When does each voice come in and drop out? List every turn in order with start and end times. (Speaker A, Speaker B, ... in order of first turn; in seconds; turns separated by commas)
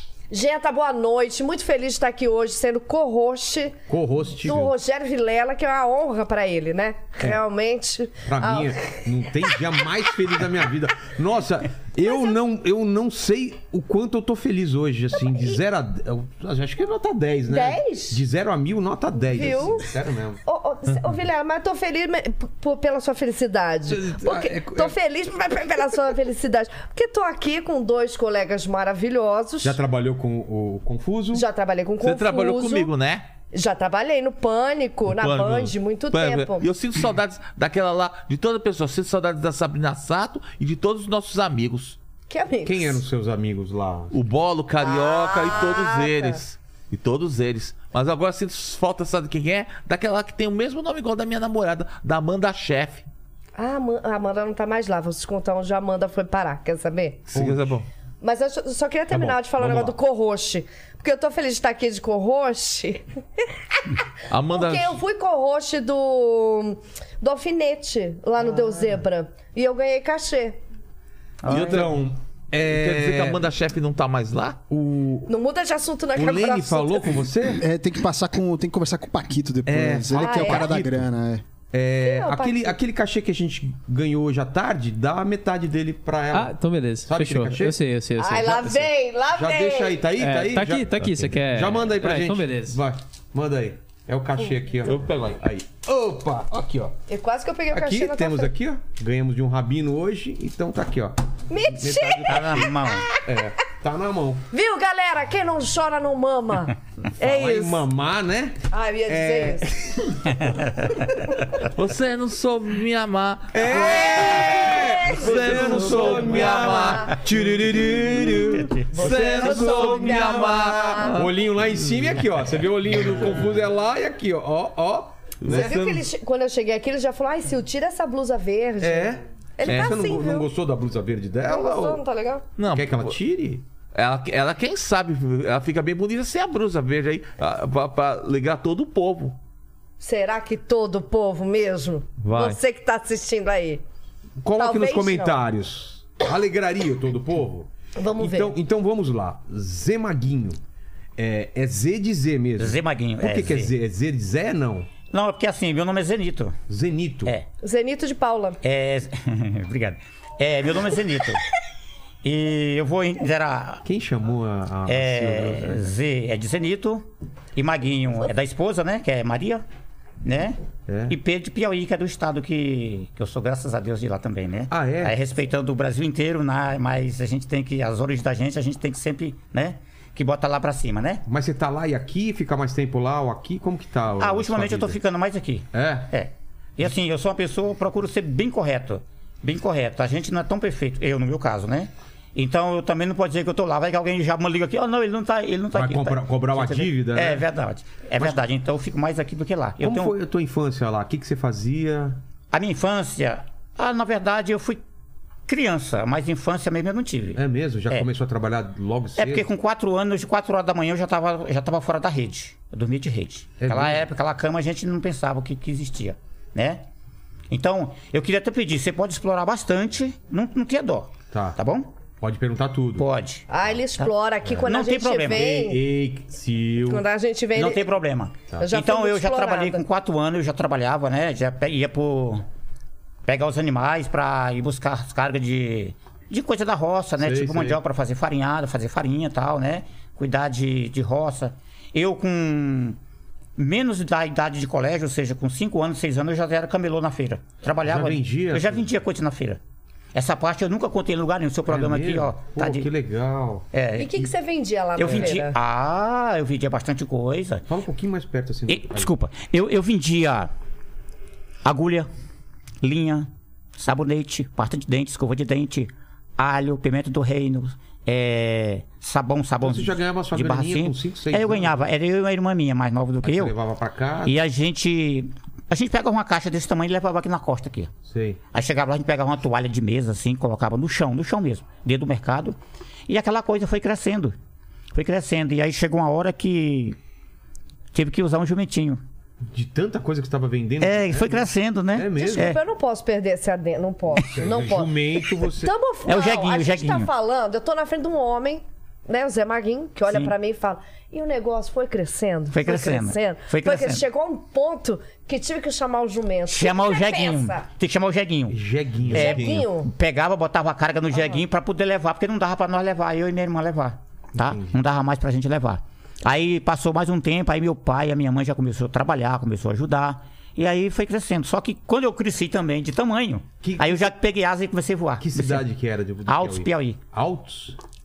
Speaker A: 0.3-3.8, Speaker B: 3.9-4.8, Speaker A: 4.4-10.0, Speaker B: 8.2-20.4, Speaker A: 12.1-12.4, Speaker A: 15.1-15.6, Speaker A: 17.5-18.2, Speaker A: 19.3-19.9, Speaker A: 20.5-29.8, Speaker B: 23.9-25.0, Speaker B: 29.6-31.5, Speaker A: 31.3-32.9, Speaker C: 32.0-33.3, Speaker A: 33.5-36.7, Speaker C: 35.1-42.0, Speaker A: 42.3-43.0, Speaker B: 42.6-44.2, Speaker C: 44.1-53.1, Speaker A: 44.8-46.4, Speaker A: 53.6-57.3, Speaker C: 57.3-57.9, Speaker B: 57.3-57.6, Speaker A: 58.2-70.6, Speaker B: 59.1-59.9, Speaker C: 64.3-65.0, Speaker D: 71.4-71.9, Speaker C: 71.5-72.0, Speaker B: 71.5-73.4, Speaker C: 72.6-74.6, Speaker B: 74.7-75.3, Speaker A: 75.3-77.1, Speaker B: 76.2-77.6, Speaker E: 77.6-81.4, Speaker B: 79.7-80.9, Speaker A: 80.1-80.7, Speaker B: 81.7-87.8, Speaker A: 82.0-82.8, Speaker F: 86.3-88.9, Speaker A: 88.2-90.1, Speaker B: 89.3-97.0, Speaker F: 90.1-92.8, Speaker C: 91.0-91.3, Speaker C: 94.8-95.4, Speaker A: 97.1-98.5, Speaker B: 97.7-102.7, Speaker A: 101.5-103.5, Speaker D: 102.3-103.1, Speaker B: 103.2-104.5, Speaker A: 104.5-107.8, Speaker B: 107.2-110.6, Speaker A: 108.7-109.7, Speaker C: 111.6-122.0, Speaker B: 113.5-125.8, Speaker A: 114.5-117.2, Speaker A: 118.9-121.2, Speaker C: 125.4-126.1, Speaker A: 125.5-130.5, Speaker B: 128.8-132.0, Speaker C: 129.7-129.9, Speaker A: 131.4-132.5, Speaker C: 132.6-133.2, Speaker B: 132.7-133.6, Speaker C: 133.9-139.4, Speaker A: 140.0-143.8, Speaker C: 142.2-142.6, Speaker B: 144.4-150.6, Speaker A: 144.6-145.4, Speaker A: 148.0-148.6, Speaker B: 151.2-154.9, Speaker D: 152.6-153.7, Speaker D: 155.1-156.6, Speaker B: 156.7-157.3, Speaker A: 157.6-158.6, Speaker D: 158.6-161.4, Speaker D: 162.2-163.8, Speaker B: 163.8-165.9, Speaker D: 164.9-169.6, Speaker D: 170.2-170.6, Speaker B: 170.9-171.2, Speaker D: 171.1-181.2, Speaker B: 174.7-175.2, Speaker B: 181.3-185.0, Speaker D: 184.2-200.2, Speaker B: 185.7-186.1, Speaker B: 195.7-197.5, Speaker B: 199.8-202.2, Speaker D: 202.5-204.8, Speaker D: 205.5-208.1, Speaker B: 207.4-209.5, Speaker D: 209.2-216.8, Speaker B: 213.6-214.1, Speaker D: 217.5-221.9, Speaker B: 221.3-221.6, Speaker B: 222.2-223.1, Speaker D: 223.0-224.1, Speaker A: 223.5-225.9, Speaker B: 224.4-224.7, Speaker D: 224.6-225.7, Speaker B: 225.3-227.1, Speaker A: 226.8-227.9, Speaker D: 227.5-232.4, Speaker A: 228.6-229.8, Speaker D: 233.3-243.0, Speaker B: 237.2-237.8, Speaker D: 243.6-249.6, Speaker B: 247.8-248.9, Speaker D: 250.1-252.9, Speaker B: 251.7-253.7, Speaker D: 253.7-254.3, Speaker A: 254.0-255.6, Speaker D: 255.0-257.7, Speaker B: 255.1-255.3, Speaker B: 257.7-259.1, Speaker D: 258.7-260.5, Speaker D: 261.6-262.1, Speaker D: 262.8-273.5, Speaker B: 269.6-271.9, Speaker B: 273.2-274.4, Speaker D: 274.2-277.9, Speaker B: 278.1-278.4, Speaker D: 278.5-282.6, Speaker D: 283.1-284.4, Speaker D: 284.9-287.0, Speaker D: 287.9-289.0, Speaker B: 289.5-292.6, Speaker D: 290.8-292.6, Speaker A: 292.1-307.7, Speaker B: 294.3-295.7, Speaker D: 296.1-297.1, Speaker D: 302.5-304.0, Speaker D: 306.5-325.7, Speaker B: 308.5-309.4, Speaker A: 309.1-309.9, Speaker C: 309.1-309.7, Speaker A: 311.1-311.4, Speaker B: 314.4-314.7, Speaker B: 323.6-324.1, Speaker B: 325.2-327.8, Speaker D: 326.3-327.0